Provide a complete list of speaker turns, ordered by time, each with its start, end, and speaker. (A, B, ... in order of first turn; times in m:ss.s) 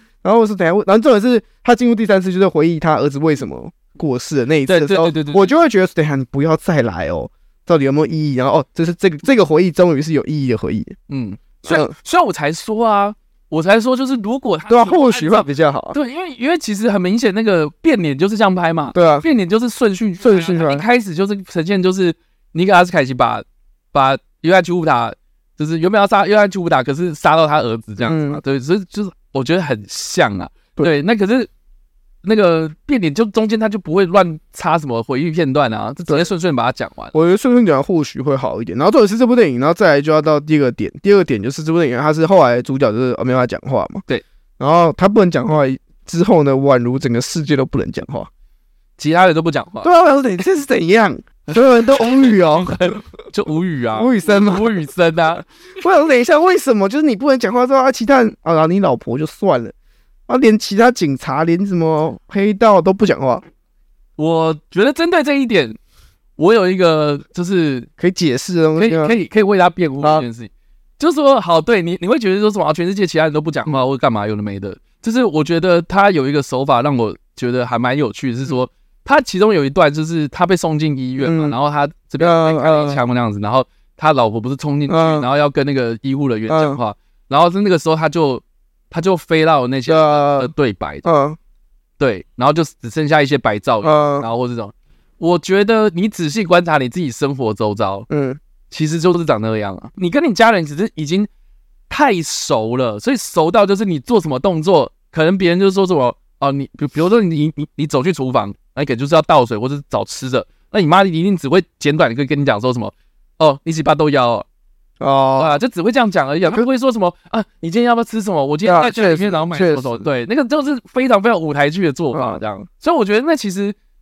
0:00.2-0:10.9 A
0:04.7-0:05.5 B
0:11.1-0:31.5 B
0:11.6-0:11.9 A
0:14.7-0:16.0 A
0:18.9-0:19.2 A
0:20.2-0:20.8 A
0:28.0-0:28.4 A
0:32.2-0:37.1 B
0:37.1-0:44.0 A
0:44.6-0:48.3 A
0:49.0-0:49.9 B
0:49.8-0:53.0 A
0:51.9-0:55.4 B
0:53.9-0:54.7 A
0:55.8-0:59.7 A
1:00.3-1:03.4 A
1:04.2-1:05.8 B
1:06.4-1:07.9 B
1:08.0-1:09.1 A
1:08.8-1:31.0 B
1:21.2-1:21.5 A
1:22.2-1:23.0 A
1:24.9-1:25.2 A
1:26.5-1:26.8 A
1:29.9-1:30.5 A
1:31.0-1:31.4 A
1:32.0-1:38.1 B
1:33.8-1:34.3 A
1:38.1-1:38.4 A
1:38.7-1:41.3 B
1:41.9-1:54.4 B
1:55.0-1:55.6 A
1:55.4-2:03.8 B
1:58.6-2:00.0 A
2:02.1-2:02.4 A